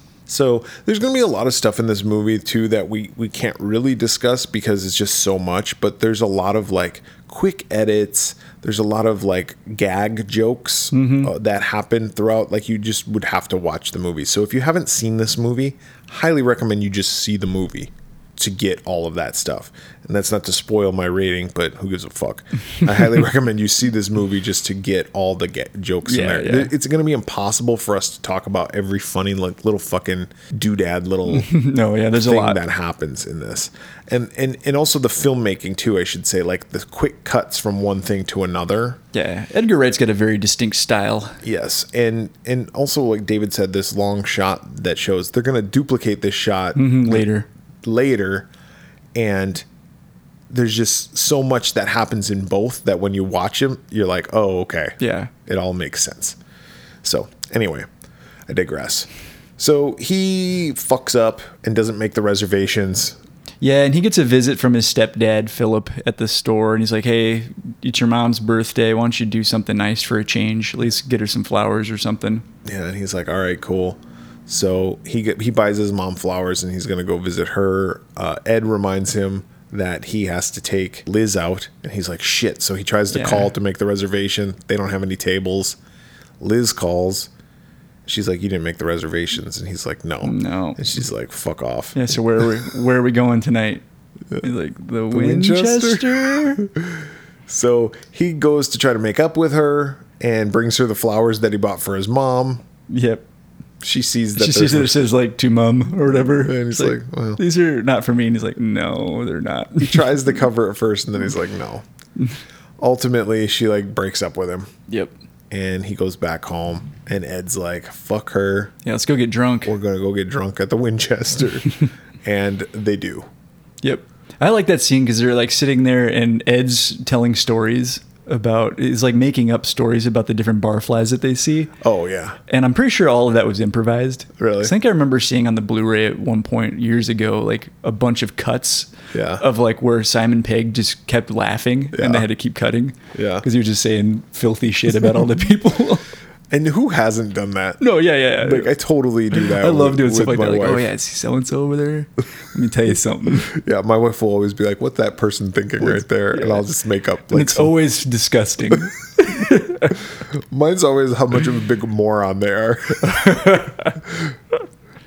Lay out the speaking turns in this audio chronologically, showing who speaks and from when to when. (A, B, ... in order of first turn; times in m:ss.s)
0:00.3-0:31.5 A
0:10.9-0:11.3 B
0:26.0-0:26.7 B
0:31.3-0:32.6 B
0:32.1-0:39.0 A
0:39.1-0:41.4 B
0:41.4-0:47.3 A
0:46.8-0:47.5 B
0:47.8-0:48.5 A
0:49.2-0:49.7 A
0:50.5-0:56.4 A
0:55.0-0:55.3 B
0:57.0-0:57.9 A
0:58.5-1:03.2 A
1:03.6-1:12.4 B
1:12.6-1:25.8 A
1:23.1-1:23.5 B
1:26.4-1:27.3 A
1:28.1-1:32.1 A
1:30.2-1:30.8 B
1:32.0-1:33.8 B
1:34.4-1:36.6 B
1:35.1-1:42.6 A
1:42.9-1:43.2 B
1:43.8-1:45.1 A
1:44.4-1:50.2 B
1:46.2-1:47.4 A
1:49.8-1:51.8 A
1:52.8-1:54.7 A
1:55.5-1:58.7 A
1:58.8-1:59.7 B
1:59.7-2:03.3 A
2:03.8-2:11.7 B
2:11.8-2:12.4 A
2:12.5-2:26.1 B
2:14.4-2:14.7 A
2:19.1-2:19.4 A
2:21.9-2:22.3 A
2:23.1-2:23.5 A
2:26.5-2:27.8 A
2:27.8-2:28.7 B
2:28.4-2:30.9 A
2:29.3-2:33.5 B
2:33.4-2:37.7 A
2:35.8-2:36.6 B
2:37.3-2:40.0 B
2:40.3-2:44.3 A
2:43.1-2:44.0 B